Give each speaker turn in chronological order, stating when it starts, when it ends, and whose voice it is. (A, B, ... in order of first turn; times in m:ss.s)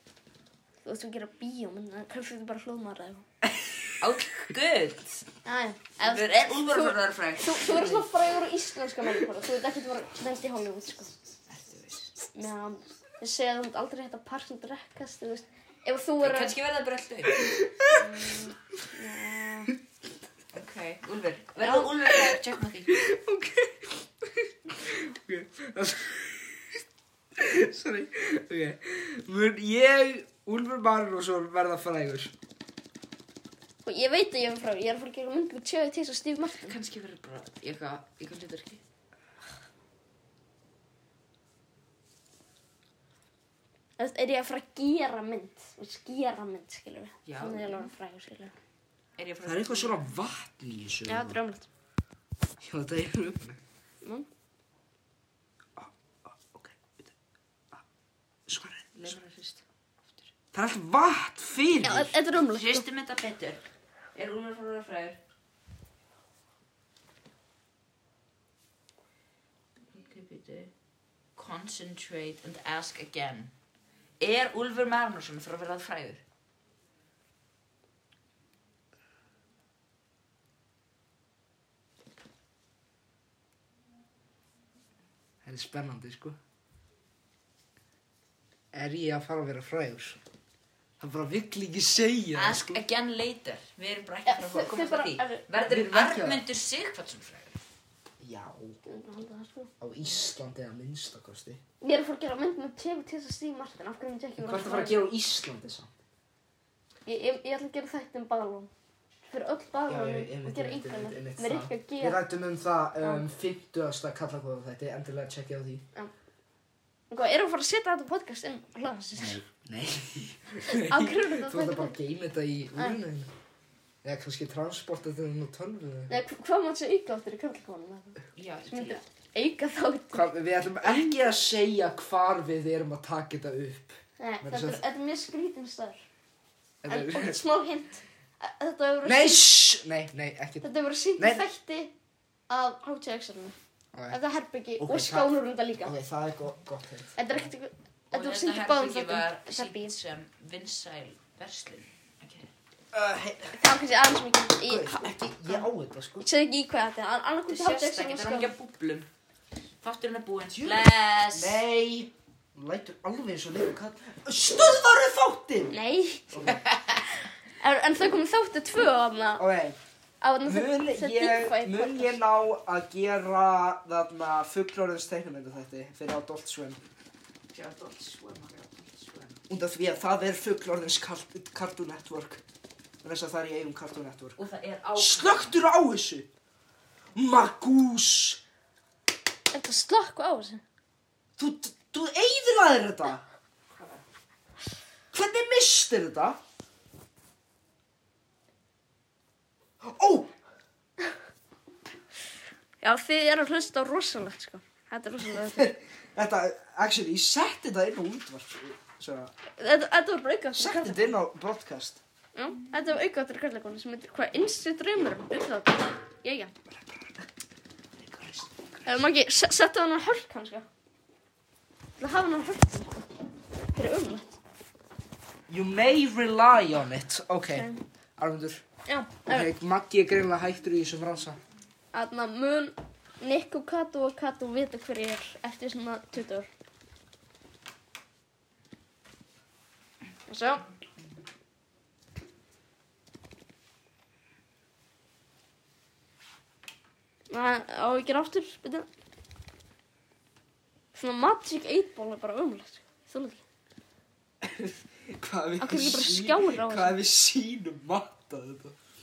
0:00.8-0:03.2 A
0:03.5-0:04.5 B
0:04.0-0:05.3 C
0:05.4-0:11.1 A
0:06.0-0:08.1 C
0:11.5-0:12.3 C
0:12.3-0:16.6 A
0:16.2-0:17.5 C
0:17.3-0:18.5 B
0:17.9-0:19.7 A
0:20.5-0:23.0 C
0:21.6-0:26.8 B
0:27.4-0:32.3 B
0:33.8-0:36.7 A
0:36.5-0:38.8 C
0:44.0-0:48.5 A
0:47.2-0:47.9 C
0:49.2-0:50.1 C
0:49.4-0:51.4 B
0:51.1-0:51.7 A
0:52.6-0:53.6 B
0:55.8-0:57.1 B
0:58.5-0:59.2 B
0:58.9-1:00.3 C
1:00.5-1:02.1 B
1:01.8-1:02.8 A
1:02.4-1:03.6 C
1:04.1-1:05.2 C
1:09.9-1:10.7 C
1:11.4-1:13.5 C
1:14.2-1:16.2 C
1:25.4-1:26.4 B
1:28.7-1:30.2 B
1:31.0-1:32.8 B
1:32.3-1:37.6 C
1:34.2-1:35.5 A
1:35.6-1:36.4 B
1:38.2-1:38.8 B
1:38.8-1:39.7 A
1:39.8-1:41.6 B
1:41.8-1:45.0 A
1:44.4-1:45.9 B
1:47.0-1:48.7 A
1:49.3-1:52.2 A
1:49.9-1:55.8 B
1:53.0-1:53.2 A
1:57.1-1:59.4 A
1:59.2-2:03.3 B
2:00.7-2:01.9 A
2:04.0-2:06.1 B
2:06.1-2:08.2 A
2:08.3-2:09.0 C
2:08.7-2:10.2 A
2:10.1-2:14.8 B
2:14.2-2:16.0 A
2:16.8-2:17.4 B
2:16.8-2:19.5 A
2:19.0-2:20.6 B
2:20.6-2:21.9 A
2:21.2-2:21.4 B
2:22.5-2:23.5 A
2:24.1-2:25.9 A
2:24.8-2:27.5 B
2:27.2-2:29.9 A
2:28.1-2:32.5 C
2:32.9-2:33.6 B
2:33.5-2:35.7 A
2:34.6-2:36.2 B
2:36.2-2:38.5 A
2:37.5-2:39.1 C
2:39.8-2:41.6 C
2:40.5-2:45.7 B
2:45.7-2:46.5 A
2:46.3-2:46.6 B
2:46.7-2:47.0 C
2:47.6-2:49.4 A
2:49.4-2:49.8 B
2:50.2-2:52.2 A
2:50.4-2:56.8 B
2:57.5-2:59.4 C
2:59.5-3:02.4 B
3:03.0-3:04.4 B
3:04.4-3:05.6 C
3:05.0-3:06.3 B
3:07.2-3:08.4 B
3:09.5-3:10.6 A
3:11.4-3:13.2 B
3:13.7-3:14.0 C
3:15.1-3:16.4 B
3:19.8-3:20.3 B
3:22.8-3:25.7 A
3:25.3-3:29.3 B
3:29.6-3:31.2 A
3:30.6-3:32.0 B
3:32.3-3:36.5 A
3:36.9-3:37.2 B
3:38.0-3:38.7 B
3:38.8-3:40.6 A
3:42.0-3:43.0 A
3:43.8-3:44.2 A
3:45.5-3:48.6 B
3:47.5-3:47.8 A
3:48.8-3:49.5 A
3:49.3-3:51.4 B
3:51.9-3:56.5 A
4:00.3-4:00.6 A
4:07.3-4:08.9 A
4:10.9-4:13.4 A
4:14.4-4:18.7 B
4:15.6-4:17.0 A